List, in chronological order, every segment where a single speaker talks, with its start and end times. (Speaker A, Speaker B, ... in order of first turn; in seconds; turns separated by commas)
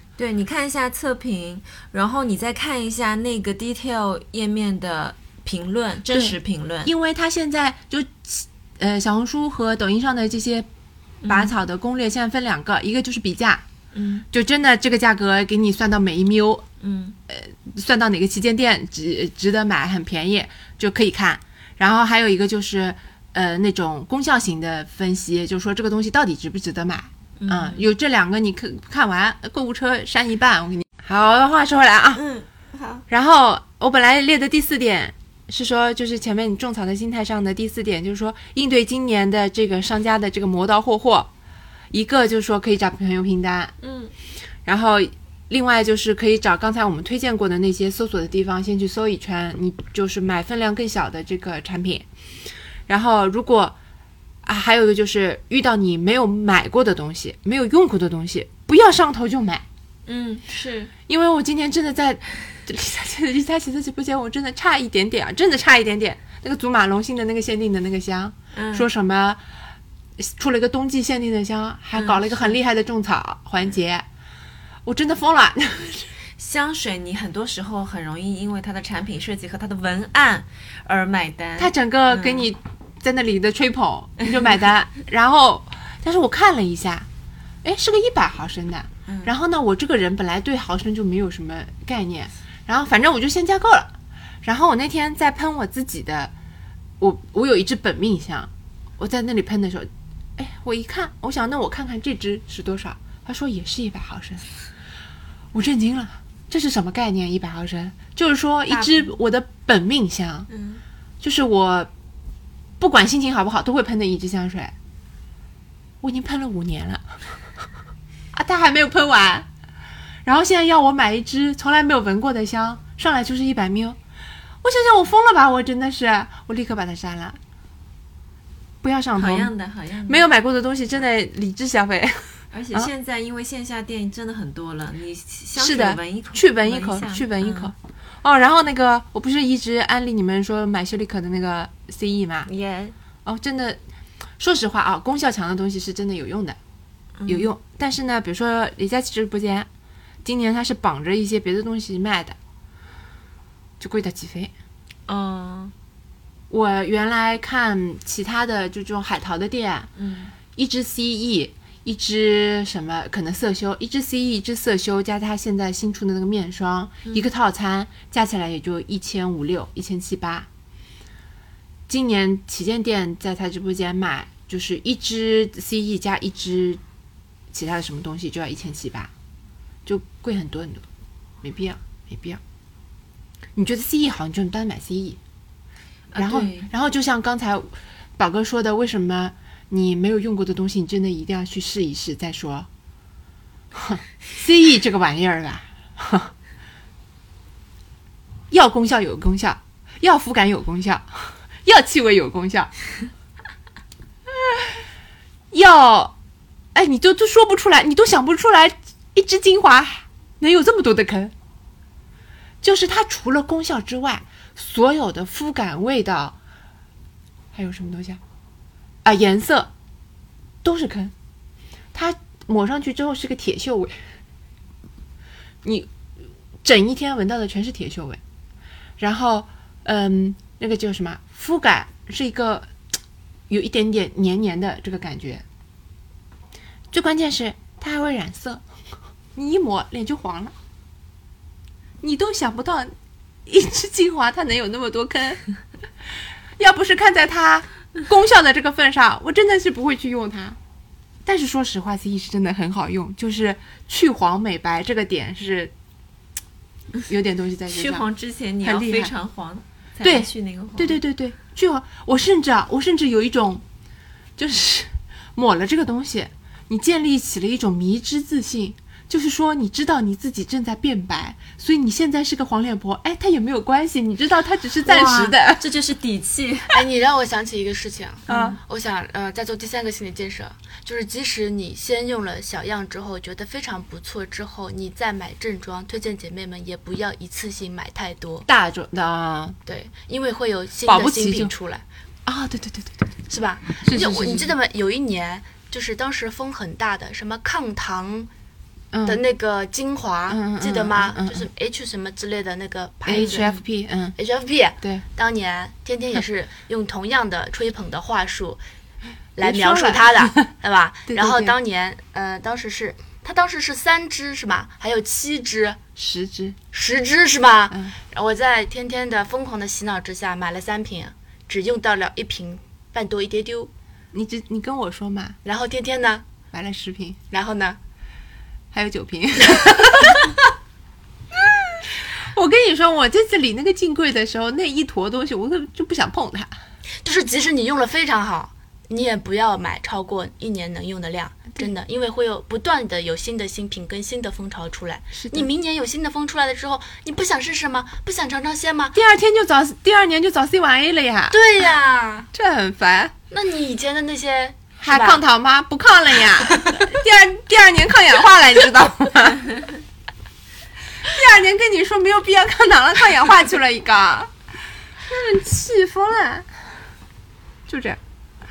Speaker A: 0.2-6.9, Speaker B: 6.1-10.7, Speaker A: 11.2-11.5, Speaker B: 11.3-13.6, Speaker A: 13.9-14.2, Speaker B: 14.3-16.6, Speaker A: 16.8-17.2, Speaker B: 17.3-32.2, Speaker A: 27.4-27.9, Speaker A: 32.1-33.0, Speaker B: 33.1-41.3, Speaker B: 41.9-43.7, Speaker A: 43.8-44.1, Speaker B: 44.6-52.1, Speaker B: 52.9-53.8, Speaker B: 54.4-59.6, Speaker A: 60.1-60.9, Speaker B: 61.1-69.4, Speaker A: 68.5-68.9, Speaker B: 70.2-74.0, Speaker A: 72.0-72.5, Speaker B: 74.8-76.1, Speaker A: 76.4-82.5, Speaker B: 81.6-87.1, Speaker B: 87.6-93.9, Speaker B: 94.4-96.3, Speaker B: 97.0-104.5, Speaker B: 105.5-110.5, Speaker A: 108.7-109.1, Speaker A: 110.5-110.8, Speaker B: 111.2-111.9, Speaker B: 112.8-114.7, Speaker B: 116.0-117.2, Speaker B: 118.3-119.5, Speaker B: 120.2-124.0, Speaker B: 124.6-127.4, Speaker B: 128.8-129.5, Speaker A: 129.2-130.2, Speaker B: 130.1-132.9, Speaker A: 132.5-137.7, Speaker B: 135.6-142.5, Speaker A: 142.4-142.9, Speaker B: 143.2-143.8, Speaker B: 144.4-146.6, Speaker A: 147.2-147.5, Speaker B: 147.3-149.7, Speaker B: 150.2-152.4, Speaker B: 153.8-154.5, Speaker A: 155.1-155.7, Speaker B: 156.5-159.9, Speaker A: 159.9-160.3, Speaker B: 160.5-170.5, Speaker B: 171.9-176.8, Speaker B: 177.5-179.1, Speaker B: 179.8-180.8, Speaker B: 181.4-182.4, Speaker B: 183.6-185.2, Speaker A: 186.1-186.7, Speaker B: 186.2-192.7, Speaker B: 193.7-196.3, Speaker B: 198.5-202.7, Speaker B: 205.5-206.1, Speaker B: 206.7-211.3, Speaker B: 212.6-216.4, Speaker B: 217.5-218.2, Speaker B: 219.0-219.7, Speaker B: 220.6-221.1, Speaker B: 221.9-223.9, Speaker B: 225.6-225.9, Speaker B: 226.6-228.2, Speaker B: 229.0-232.7, Speaker B: 233.5-235.4, Speaker B: 236.9-238.6, Speaker B: 239.3-240.5, Speaker B: 242.0-242.9, Speaker B: 243.4-245.4, Speaker B: 246.6-250.6, Speaker B: 251.2-255.7, Speaker B: 257.1-258.1, Speaker A: 257.7-261.0, Speaker B: 258.6-259.1, Speaker B: 260.0-263.6, Speaker B: 264.4-275.6, Speaker A: 274.8-276.8, Speaker C: 276.7-288.4, Speaker A: 278.3-278.6, Speaker B: 278.3-278.6, Speaker B: 288.4-289.6, Speaker C: 289.6-291.8, Speaker B: 290.9-291.5, Speaker B: 292.2-293.1, Speaker C: 293.3-298.3, Speaker B: 293.8-294.5, Speaker B: 298.9-299.2, Speaker C: 299.0-303.5, Speaker B: 300.3-301.5, Speaker B: 303.1-304.1, Speaker A: 303.2-303.6, Speaker C: 304.2-308.6, Speaker C: 309.4-315.8, Speaker B: 309.4-310.5, Speaker B: 311.1-311.6, Speaker B: 316.0-316.6, Speaker C: 316.7-323.7, Speaker B: 324.1-325.4, Speaker C: 325.4-326.2, Speaker B: 326.5-327.2, Speaker C: 327.3-327.8, Speaker B: 328.7-330.4, Speaker C: 329.5-330.1, Speaker B: 331.3-336.5, Speaker C: 337.0-348.9, Speaker B: 345.1-345.5, Speaker B: 348.9-351.4, Speaker C: 351.3-352.3, Speaker B: 352.3-353.1, Speaker C: 353.3-355.2, Speaker B: 354.8-359.5, Speaker C: 356.5-356.9, Speaker B: 361.0-364.3, Speaker B: 365.1-366.5, Speaker B: 367.7-368.0